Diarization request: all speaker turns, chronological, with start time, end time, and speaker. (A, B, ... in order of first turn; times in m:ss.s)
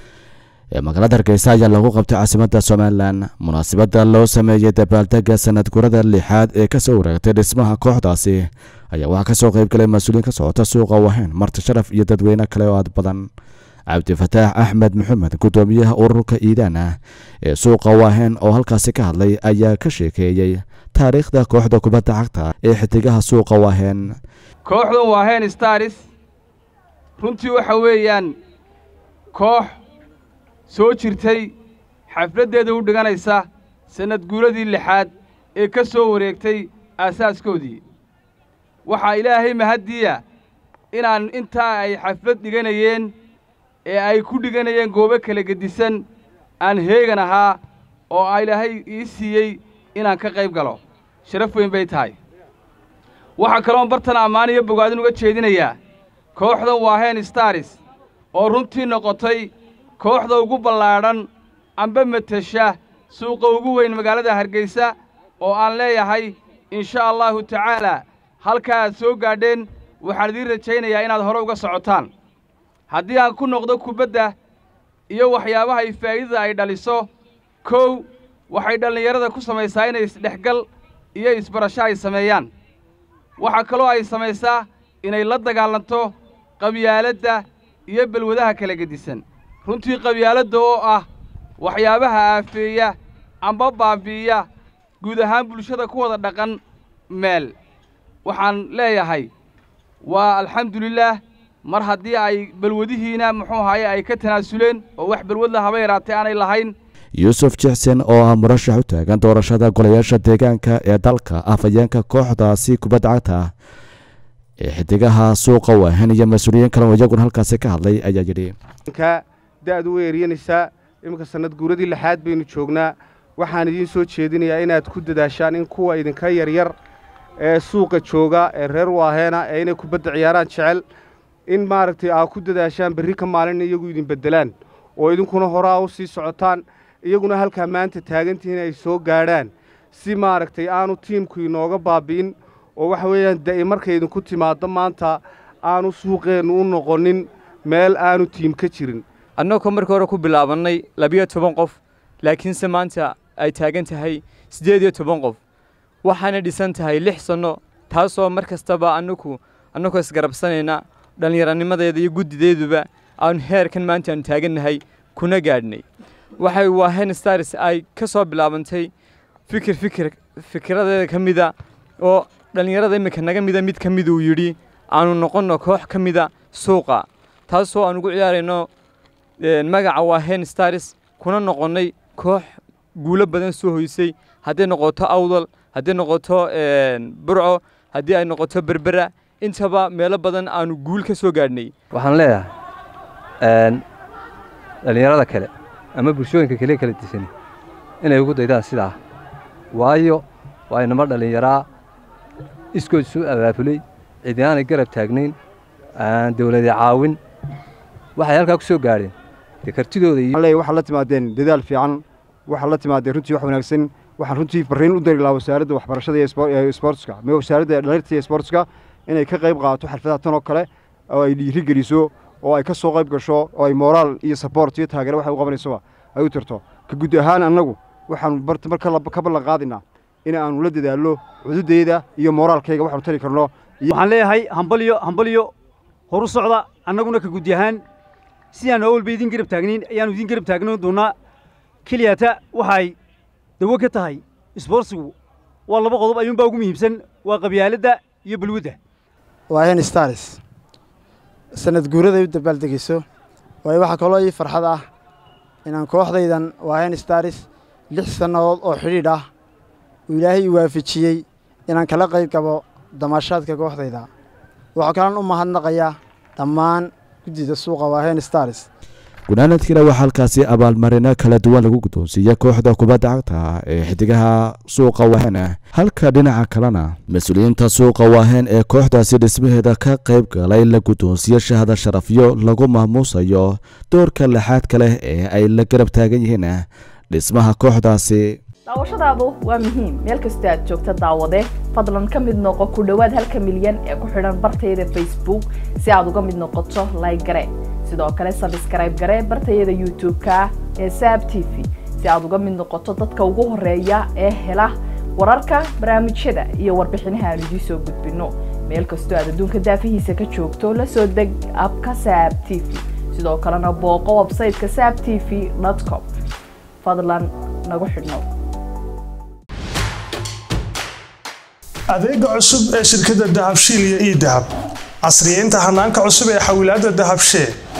0:00.8-0:13.3 A
0:13.9-0:16.9 A
0:17.5-0:24.0 A
0:24.6-0:26.1 B
0:27.2-0:28.3 B
0:29.3-0:29.8 B
0:30.7-0:31.5 B
0:32.1-0:37.8 B
0:38.9-0:40.2 B
0:40.9-0:43.1 B
0:43.9-0:46.0 B
0:46.6-0:47.6 B
0:48.1-0:52.2 B
0:53.4-0:55.8 B
0:56.4-0:57.8 B
0:58.3-1:01.3 B
1:01.8-1:12.1 B
1:12.9-1:14.3 B
1:15.1-1:17.1 B
1:17.6-1:22.5 B
1:23.4-1:31.1 B
1:31.6-1:34.5 B
1:35.0-1:36.6 B
1:37.1-1:37.5 B
1:38.2-1:39.3 B
1:40.0-1:46.7 B
1:47.2-1:53.5 A
1:54.6-1:58.5 A
1:58.9-2:06.7 C
2:07.4-2:10.8 C
2:11.5-2:29.0 C
2:29.4-2:35.4 D
2:36.0-2:45.8 D
2:46.4-2:48.9 D
2:49.5-2:58.7 D
2:59.4-3:11.7 D
3:12.0-3:12.4 E
3:13.5-3:13.8 E
3:14.8-3:17.3 E
3:18.0-3:18.9 E
3:19.7-3:21.6 E
3:22.7-3:25.4 E
3:26.0-3:27.2 E
3:28.2-3:29.1 E
3:29.6-3:30.3 E
3:30.3-3:53.9 F
3:53.9-3:55.5 G
3:56.1-3:57.8 G
3:58.5-4:01.1 G
4:01.9-4:03.0 G
4:03.6-4:05.1 G
4:05.7-4:08.8 G
4:09.5-4:10.4 H
4:11.6-4:13.0 H
4:13.6-4:14.9 H
4:15.6-4:19.3 H
4:20.1-4:24.1 H
4:24.8-4:28.7 H
4:29.3-4:46.6 A
4:47.1-4:48.2 A
4:48.7-5:16.1 I
5:16.8-5:18.3 I
5:21.9-5:24.5 J
5:25.0-5:27.5 J